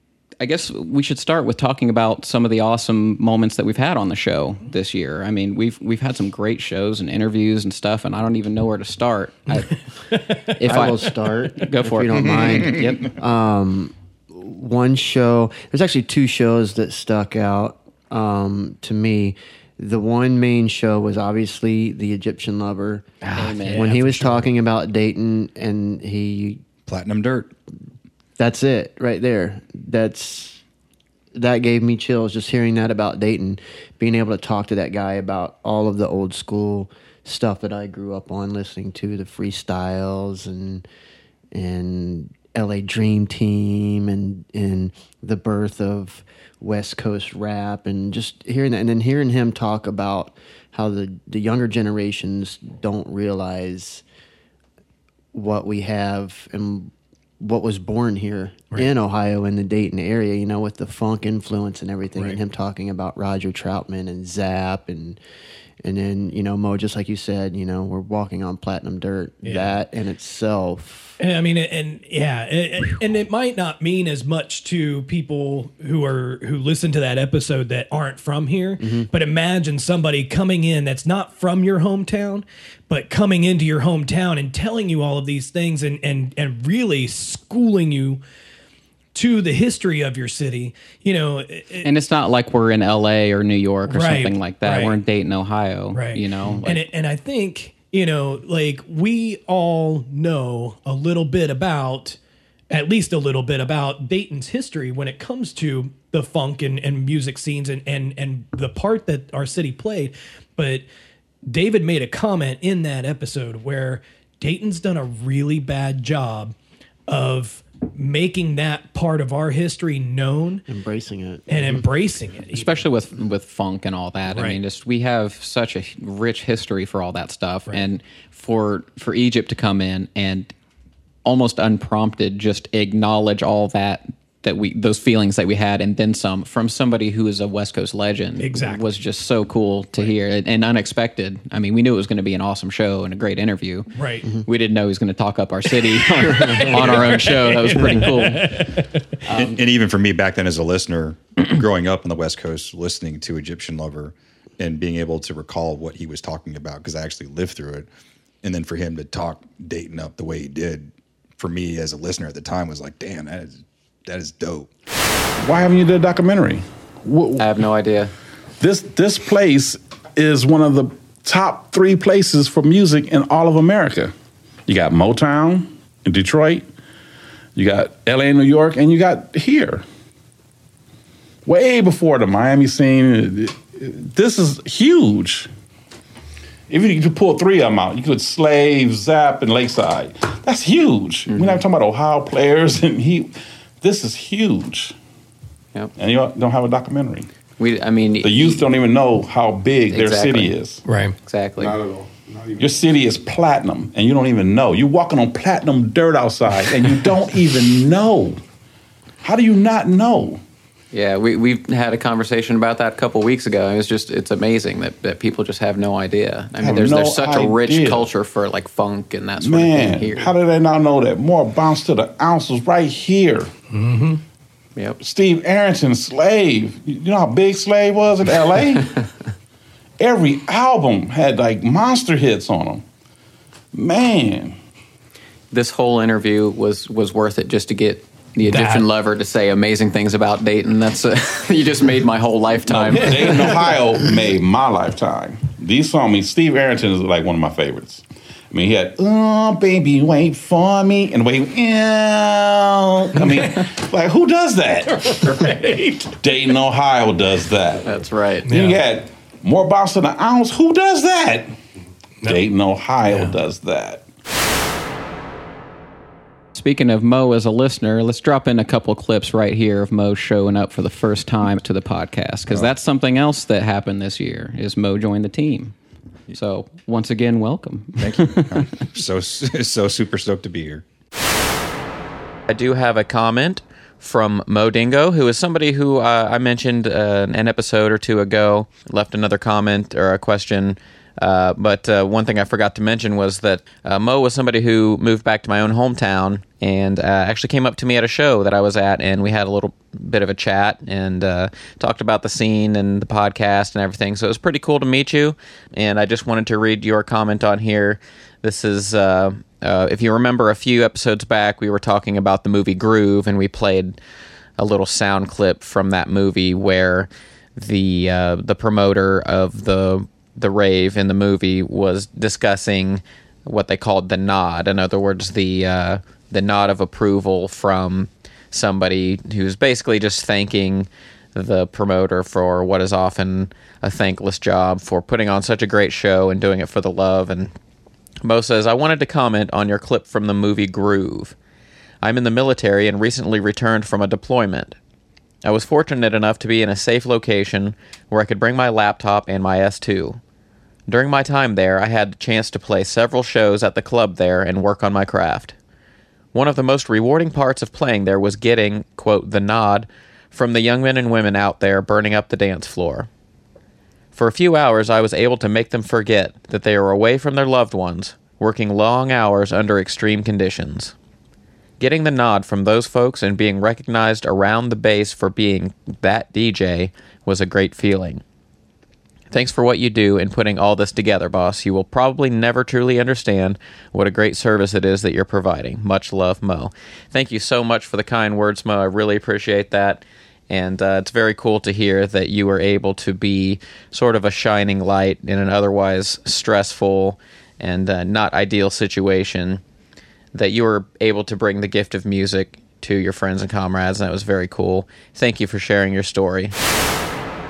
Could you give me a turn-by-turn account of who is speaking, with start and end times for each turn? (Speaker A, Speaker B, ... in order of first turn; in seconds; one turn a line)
Speaker A: 0.4-9.9
Speaker B: 10.1-10.5
Speaker C: 10.6-23.1
Speaker A: 10.6-13.1
Speaker B: 23.2-24.5
Speaker A: 23.3-23.9
Speaker C: 23.7-26.6
Speaker D: 26.9-27.5
Speaker C: 28.4-30.6
Speaker C: 31.3-40.9
Speaker C: 41.5-54.0
Speaker C: 55.3-65.2
Speaker C: 65.8-71.2
Speaker B: 69.4-69.8
Speaker B: 71.2-88.2
Speaker C: 78.8-79.1
Speaker B: 89.1-91.9
Speaker A: 91.8-96.8
Speaker B: 93.9-95.0
Speaker B: 95.9-102.2
Speaker B: 102.7-110.8
Speaker B: 111.5-116.5
Speaker B: 117.1-120.6
Speaker C: 120.7-121.9
Speaker B: 121.5-122.8
Speaker A: 122.5-130.5
Speaker B: 124.3-124.6
Speaker A: 131.2-143.9
Speaker B: 138.4-138.8
Speaker B: 143.9-144.3
Speaker A: 144.4-149.6
Speaker B: 146.2-149.1
Speaker D: 146.7-147.3
Speaker D: 149.3-157.9
Speaker D: 158.4-164.7
Speaker E: 165.4-167.5
Speaker A: 167.4-168.1
Speaker E: 168.6-174.1
Speaker E: 174.7-176.7
Speaker E: 177.5-179.8
Speaker E: 181.4-185.5
Speaker E: 186.7-194.9
Speaker A: 191.3-191.6
Speaker E: 196.0-197.3
Speaker A: 197.6-198.6
Speaker E: 198.2-200.8
Speaker A: 199.9-200.5
Speaker B: 200.8-201.2
Speaker A: 201.2-201.8
Speaker E: 201.6-208.4
Speaker E: 209.2-210.4
Speaker A: 210.9-220.3
Speaker E: 216.6-218.1
Speaker E: 219.4-223.5
Speaker B: 223.7-224.2
Speaker E: 225.0-229.1
Speaker E: 230.0-232.8
Speaker E: 233.7-234.6
Speaker A: 235.5-243.3
Speaker B: 238.4-238.9
Speaker E: 242.7-261.5
Speaker B: 243.0-243.6
Speaker B: 253.2-253.7
Speaker B: 255.0-256.1
Speaker A: 257.8-258.5
Speaker B: 258.4-258.8
Speaker E: 262.2-264.0
Speaker B: 263.1-263.4
Speaker A: 266.5-275.7
Speaker A: 276.3-278.6
Speaker D: 278.0-280.8
Speaker A: 282.5-314.0
Speaker A: 314.6-337.5
Speaker A: 338.2-341.4
Speaker A: 342.0-344.8
Speaker A: 345.4-350.2
Speaker A: 350.9-355.6
Speaker A: 356.3-363.1
Speaker A: 364.1-370.9
Speaker A: 371.8-378.2
Speaker A: 379.3-399.6
Speaker A: 400.3-406.5